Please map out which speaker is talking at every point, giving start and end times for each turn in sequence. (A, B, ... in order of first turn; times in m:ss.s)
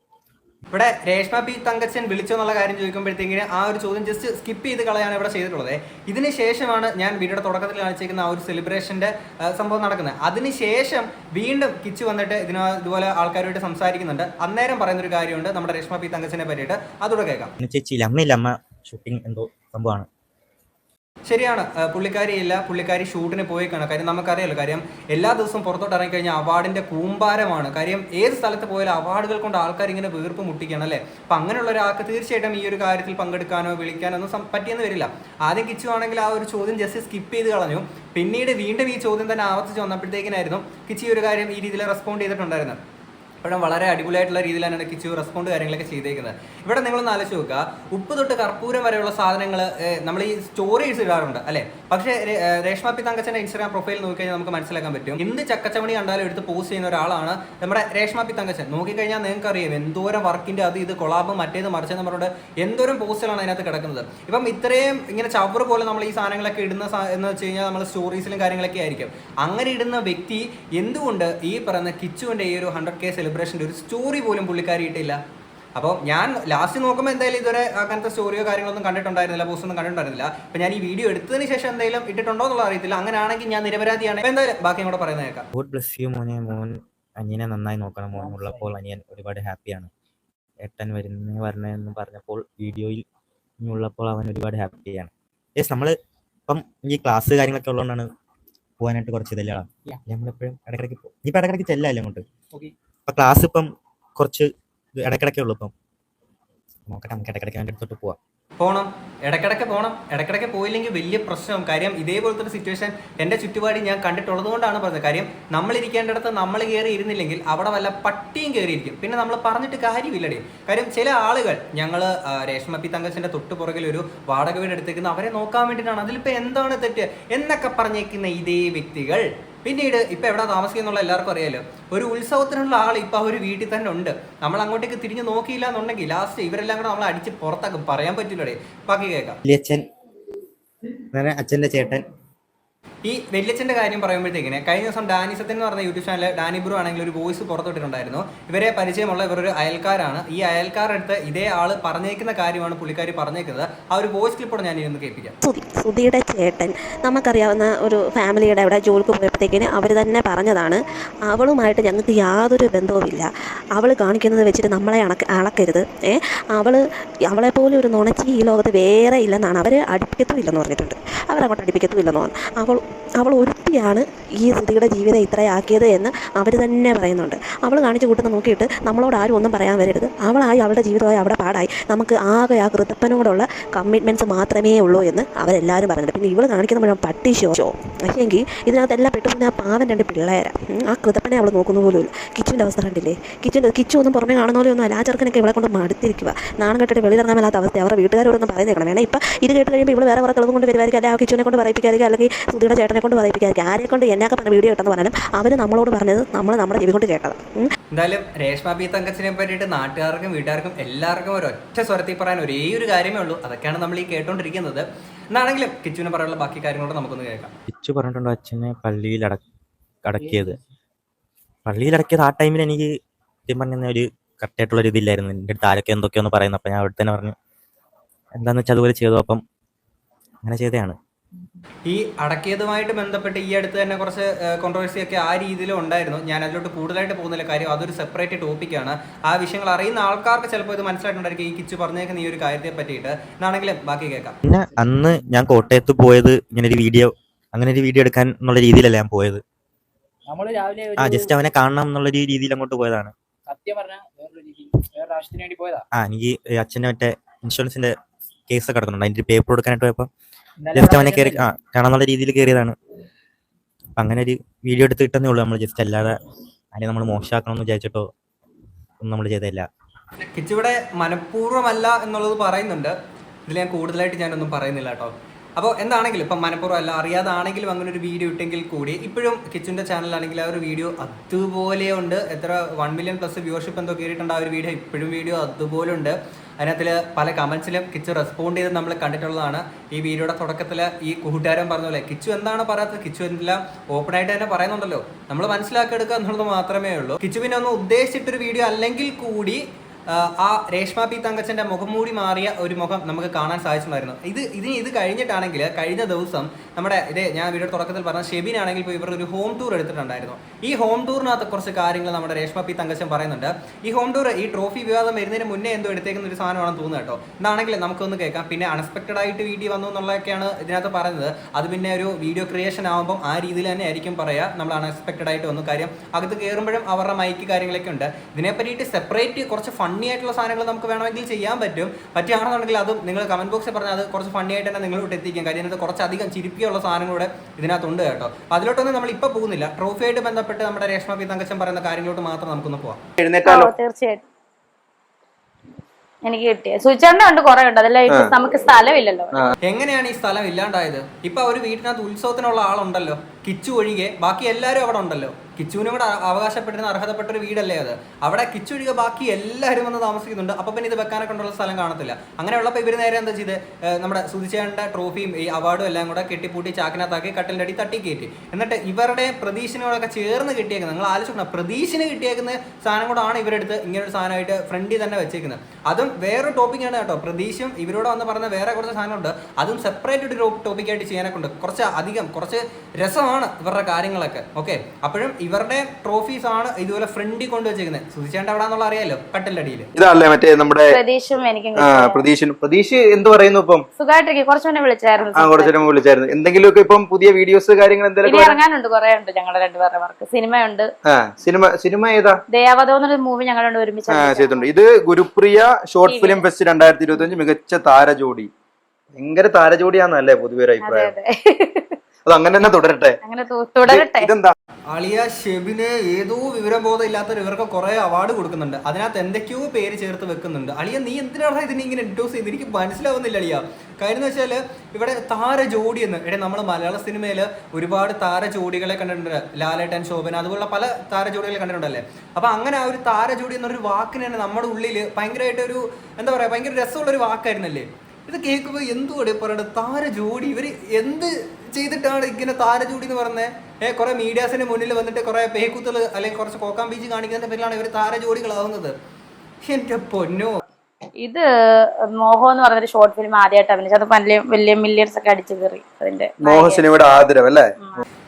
0:00.7-0:17.5 A
0:17.6-0:20.1 B
0:21.2-0:42.8 A
0:43.4-1:15.2 A
1:15.8-1:25.5 A
1:25.5-1:29.9 B
1:28.1-1:28.7 C
1:30.6-1:33.0 B
1:33.6-1:35.9 B
1:36.5-1:38.1 B
1:38.8-1:42.2 B
1:43.1-1:45.7 B
1:46.9-1:48.2 B
1:48.6-2:19.4 A
2:19.4-2:19.8 B
2:21.1-2:22.0 B
2:23.0-2:35.3 A
2:35.4-3:27.7 D
3:27.9-3:37.5 A
3:37.7-3:39.4 B
3:40.0-3:40.6 B
3:41.6-3:42.9 B
3:43.5-3:47.3 B
3:48.4-3:49.4 B
3:50.4-3:51.0 B
3:51.9-4:04.4 A
4:04.4-4:09.4 B
4:10.3-4:11.3 C
4:11.0-4:13.1 B
4:13.5-4:15.8 C
4:15.9-4:17.9 B
4:18.5-4:20.1 B
4:20.6-4:21.4 C
4:20.7-4:22.7 B
4:24.0-4:26.1 B
4:26.7-4:28.1 B
4:29.0-4:29.6 B
4:30.3-4:32.9 A
4:33.5-5:43.0 A
5:43.2-5:43.7 E
5:43.4-5:44.2 F
5:46.2-5:49.5 F
5:48.1-5:48.3 E
5:49.6-6:29.9 A
6:30.0-6:31.0 E
6:30.9-6:32.2 F
6:31.8-6:33.8 E
6:34.0-6:35.7 F
6:35.3-6:38.6 E
6:38.2-6:40.9 F
6:41.1-6:42.4 E
6:42.5-6:44.7 F
6:44.1-6:48.5 E
6:46.0-6:46.4 F
6:49.2-6:51.1 E
6:50.8-6:52.0 F
6:52.2-6:53.2 E
6:53.2-6:54.3 F
6:53.8-6:54.5 E
6:54.9-7:28.9 A
7:29.6-7:30.6 A
7:31.2-7:36.8 F
7:36.4-7:38.0 E